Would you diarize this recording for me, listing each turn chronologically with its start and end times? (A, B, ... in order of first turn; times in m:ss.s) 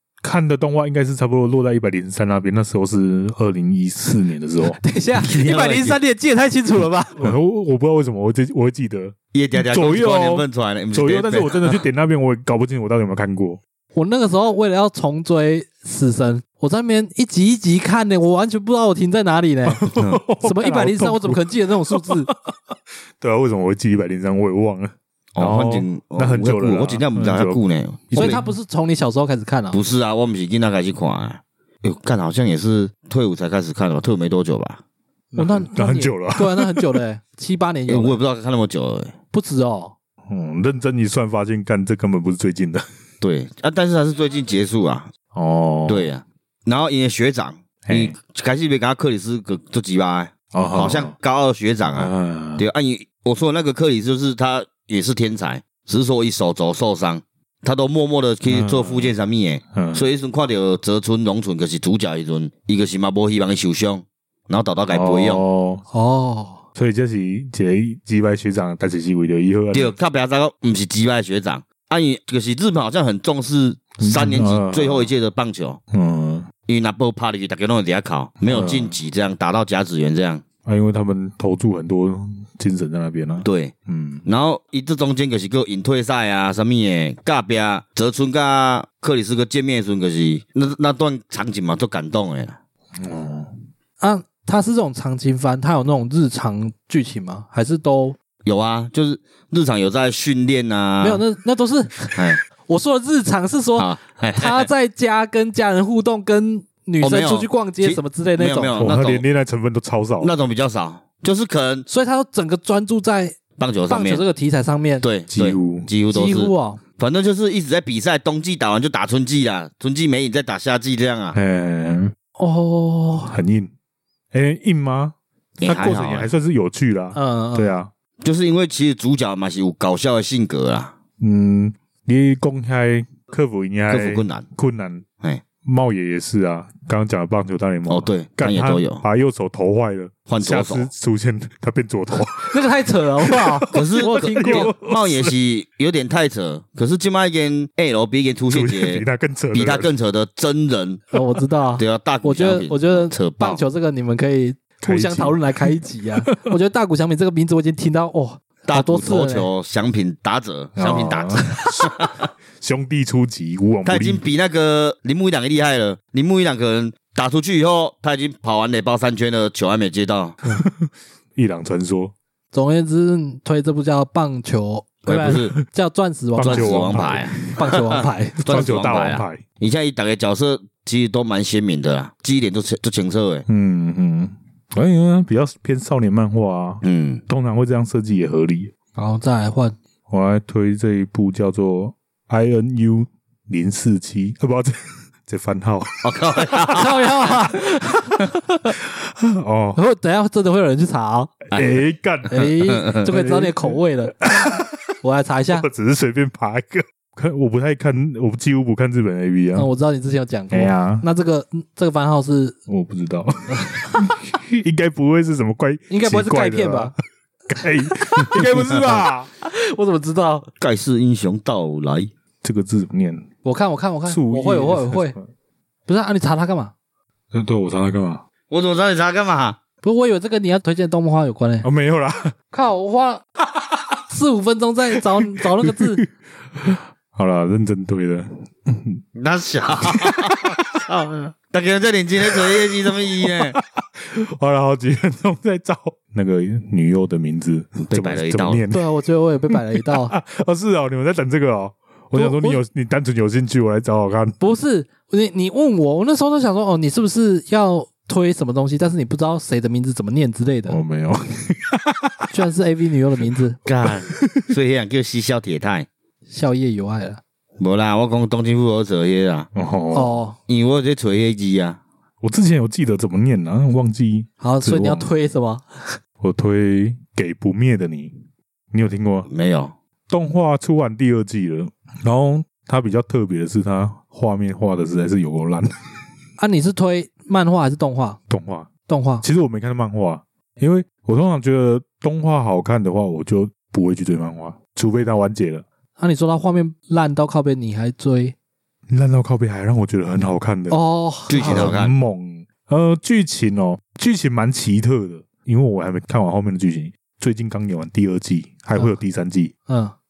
0:00.2-0:05.6 A
0:04.8-0:07.3 B
0:05.4-0:06.0 C
0:07.2-0:13.6 A
0:09.3-0:11.8 C
0:13.9-0:19.8 B
0:19.7-0:27.6 A
0:20.0-0:20.2 C
0:20.4-0:22.3 B
0:25.3-0:28.4 C
0:28.1-0:28.5 A
0:28.1-0:29.8 B
0:29.7-0:34.8 C
0:35.3-0:38.2 B
0:35.4-0:37.0 A
0:37.9-0:39.1 C
0:39.3-0:39.9 B
0:40.3-0:42.8 A
0:43.2-0:45.1 C
0:45.3-0:46.1 A
0:45.9-1:05.4 C
0:47.8-0:48.1 A
0:50.5-0:51.1 A
0:52.0-0:52.6 A
0:58.4-0:59.2 A
0:59.7-1:00.1 A
1:04.9-1:05.8 A
1:05.9-1:06.6 B
1:06.8-1:10.0 A
1:09.7-1:15.8 C
1:14.0-1:15.1 A
1:15.9-1:16.5 A
1:16.7-1:20.4 C
1:18.4-1:19.0 A
1:20.6-1:24.2 A
1:23.4-1:23.7 C
1:24.2-1:32.6 C
1:33.0-1:33.5 A
1:34.0-1:38.2 B
1:38.4-1:41.2 C
1:41.0-1:48.9 B
1:42.1-1:42.4 C
1:43.7-1:44.7 C
1:47.0-1:49.2 C
1:48.7-1:50.3 A
1:50.2-1:51.9 C
1:51.9-1:53.4 B
1:53.6-1:54.2 C
1:53.9-1:55.0 B
1:55.0-2:01.4 C
1:55.3-1:55.9 A
1:56.1-1:56.8 B
2:01.3-2:02.1 A
2:02.4-2:03.3 B
2:03.3-2:03.7 A
2:04.3-2:07.9 A
2:05.6-2:06.3 C
2:07.1-2:07.7 B
2:08.2-2:10.9 C
2:11.2-2:15.0 A
2:13.9-2:14.4 C
2:15.6-2:22.6 A
2:17.9-2:19.0 C
2:20.3-2:20.9 C
2:22.5-2:24.7 B
2:23.2-2:25.3 A
2:23.7-2:31.0 C
2:28.5-2:29.9 A
2:31.1-2:39.5 B
2:31.8-2:33.6 C
2:34.8-2:35.7 A
2:38.6-2:42.1 C
2:40.8-2:41.9 A
2:42.6-2:44.2 A
2:43.8-2:50.4 C
2:50.5-2:52.1 A
2:52.5-2:57.0 B
2:55.0-2:55.5 C
2:56.4-2:57.8 A
2:56.4-3:03.4 C
2:57.5-2:58.4 B
2:58.4-2:59.4 A
3:03.5-3:08.7 A
3:06.8-3:07.2 C
3:09.0-3:09.7 B
3:10.1-3:16.9 A
3:16.0-3:16.9 C
3:16.7-3:18.7 B
3:18.8-3:19.8 A
3:19.8-3:21.3 B
3:21.5-3:21.8 C
3:21.5-3:24.9 A
3:22.3-3:24.2 B
3:22.6-3:23.0 C
3:25.0-3:25.7 B
3:25.5-3:29.7 A
3:29.5-3:32.6 B
3:30.5-3:31.0 A
3:32.7-3:37.0 A
3:35.9-3:36.9 B
3:37.5-3:39.3 A
3:39.4-3:40.5 B
3:40.6-3:42.1 C
3:42.4-3:43.2 A
3:43.4-3:45.1 B
3:44.1-3:45.2 A
3:45.9-3:46.7 B
3:47.3-3:48.2 A
3:48.5-3:49.6 C
3:49.8-3:51.6 B
3:51.6-3:52.3 A
3:52.5-3:53.2 B
3:53.5-3:54.0 A
3:54.1-3:56.0 B
3:55.0-3:59.0 A
3:59.2-4:03.6 C
3:59.9-4:00.8 A
4:03.2-4:08.9 A
4:07.8-4:08.6 C
4:08.7-4:10.1 B
4:09.5-4:14.4 A
4:12.1-4:12.6 B
4:14.4-4:20.8 B
4:20.7-4:22.3 A
4:22.3-4:23.6 B
4:23.6-4:25.9 C
4:23.8-4:24.5 A
4:26.3-4:27.2 B
4:27.6-4:29.5 C
4:29.5-4:30.2 A
4:29.9-4:30.4 B
4:30.5-4:31.8 C
4:32.2-4:35.1 A
4:34.4-4:36.0 B
4:36.2-4:38.1 A
4:38.7-4:39.3 A
4:39.3-4:39.7 C
4:40.1-4:45.9 A
4:46.4-4:48.2 B
4:48.3-4:48.7 A
4:48.9-4:49.2 B
4:49.2-4:55.6 A
4:56.0-4:58.3 B
4:58.9-5:00.8 A
5:00.7-5:01.7 B
5:01.3-5:01.9 C
5:01.4-5:09.5 A
5:09.7-5:09.9 B